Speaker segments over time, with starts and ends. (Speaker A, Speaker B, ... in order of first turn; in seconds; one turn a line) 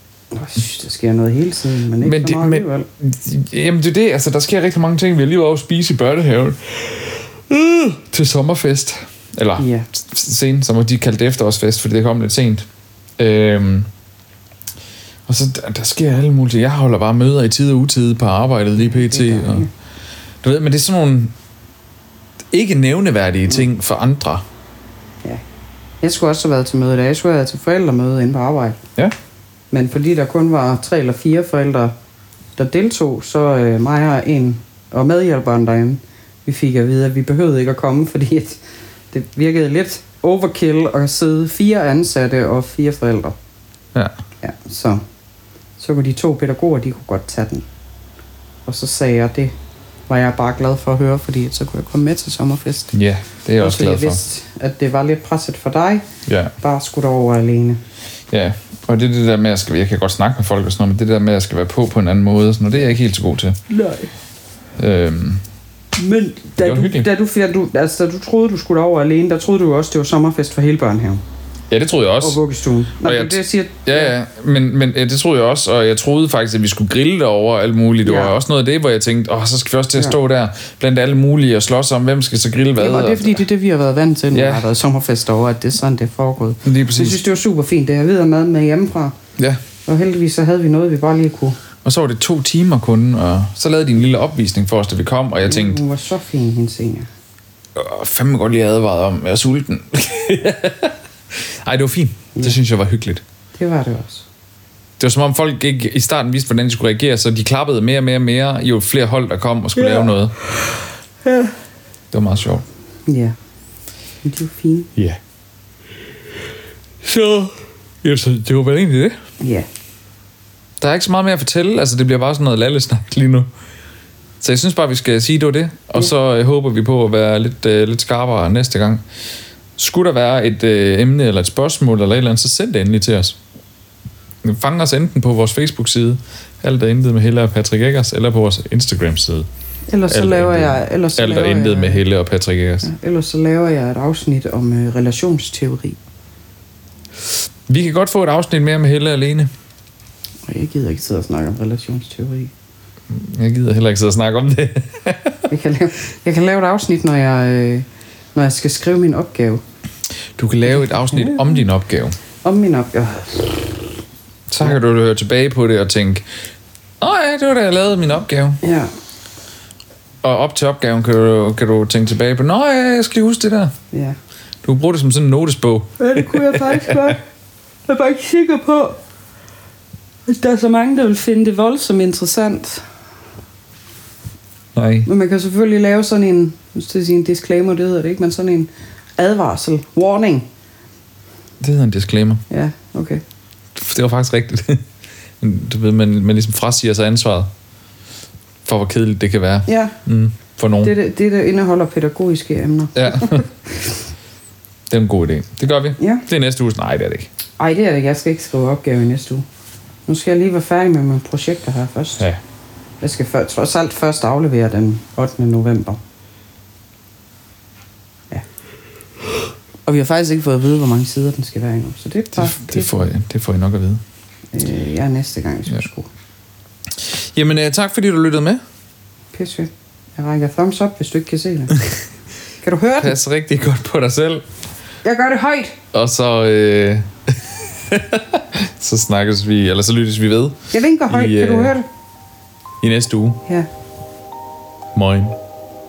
Speaker A: 0.3-2.9
Speaker B: 2.0-12.7
Speaker A: 9.6-9.9
Speaker B: 13.2-13.9
Speaker B: 15.3-19.7
Speaker A: 18.8-19.7
Speaker B: 20.4-21.3
Speaker B: 22.5-24.4
Speaker A: 26.0-28.8
Speaker A: 29.7-31.9
Speaker A: 32.6-38.6
Speaker A: 39.1-43.4
Speaker A: 44.4-45.0
Speaker A: 45.8-47.6
Speaker A: 48.6-49.5
Speaker A: 50.1-52.9
Speaker B: 52.9-54.2
Speaker A: 53.6-56.0
Speaker B: 56.2-56.5
Speaker A: 56.6-57.8
Speaker B: 58.3-63.6
Speaker A: 63.7-64.1
Speaker B: 64.8-65.4
Speaker A: 66.0-71.2
Speaker B: 66.6-67.1
Speaker B: 71.7-72.4
Speaker A: 72.2-74.1
Speaker B: 73.0-83.4
Speaker A: 78.0-78.3
Speaker A: 82.8-89.1
Speaker B: 84.3-84.7
Speaker B: 86.6-87.2
Speaker A: 89.8-91.6
Speaker B: 91.8-95.8
Speaker A: 95.5-97.1
Speaker B: 97.7-103.2
Speaker A: 103.6-104.3
Speaker B: 105.0-110.3
Speaker A: 109.7-110.7
Speaker A: 111.2-111.5
Speaker B: 112.1-112.6
Speaker A: 113.1-113.3
Speaker A: 114.2-114.9
Speaker B: 117.0-119.2
Speaker A: 119.4-119.7
Speaker B: 120.8-123.5
Speaker B: 124.4-129.0
Speaker B: 129.8-133.4
Speaker B: 134.4-139.5
Speaker A: 139.9-142.0
Speaker B: 140.1-142.9
Speaker A: 142.8-146.0
Speaker B: 147.7-149.5
Speaker A: 150.5-152.5
Speaker B: 153.1-155.5
Speaker A: 155.5-159.6
Speaker B: 160.3-162.1
Speaker A: 160.7-161.6
Speaker A: 162.4-163.7
Speaker B: 164.5-166.2
Speaker B: 167.0-168.6
Speaker A: 168.6-168.9
Speaker B: 170.2-173.7
Speaker A: 173.9-174.2
Speaker B: 174.6-177.2
Speaker A: 176.0-177.2
Speaker A: 177.9-179.0
Speaker A: 180.3-182.8
Speaker B: 184.7-185.1
Speaker A: 185.1-190.5
Speaker B: 191.6-192.4
Speaker A: 192.5-193.2
Speaker B: 193.7-194.8
Speaker B: 195.4-197.5
Speaker B: 198.6-200.9
Speaker A: 199.7-199.9
Speaker A: 200.8-203.5
Speaker B: 202.9-203.4
Speaker B: 204.9-207.3
Speaker A: 206.0-206.2
Speaker A: 207.6-209.4
Speaker A: 210.1-212.2
Speaker A: 213.0-216.0
Speaker A: 219.8-223.1
Speaker B: 222.3-224.0
Speaker A: 224.5-226.1
Speaker B: 227.0-228.6
Speaker A: 229.3-231.8
Speaker A: 232.6-233.2
Speaker B: 233.0-234.4
Speaker A: 235.0-235.7
Speaker B: 235.9-241.8
Speaker A: 240.7-241.9
Speaker B: 242.8-243.4
Speaker B: 244.9-245.4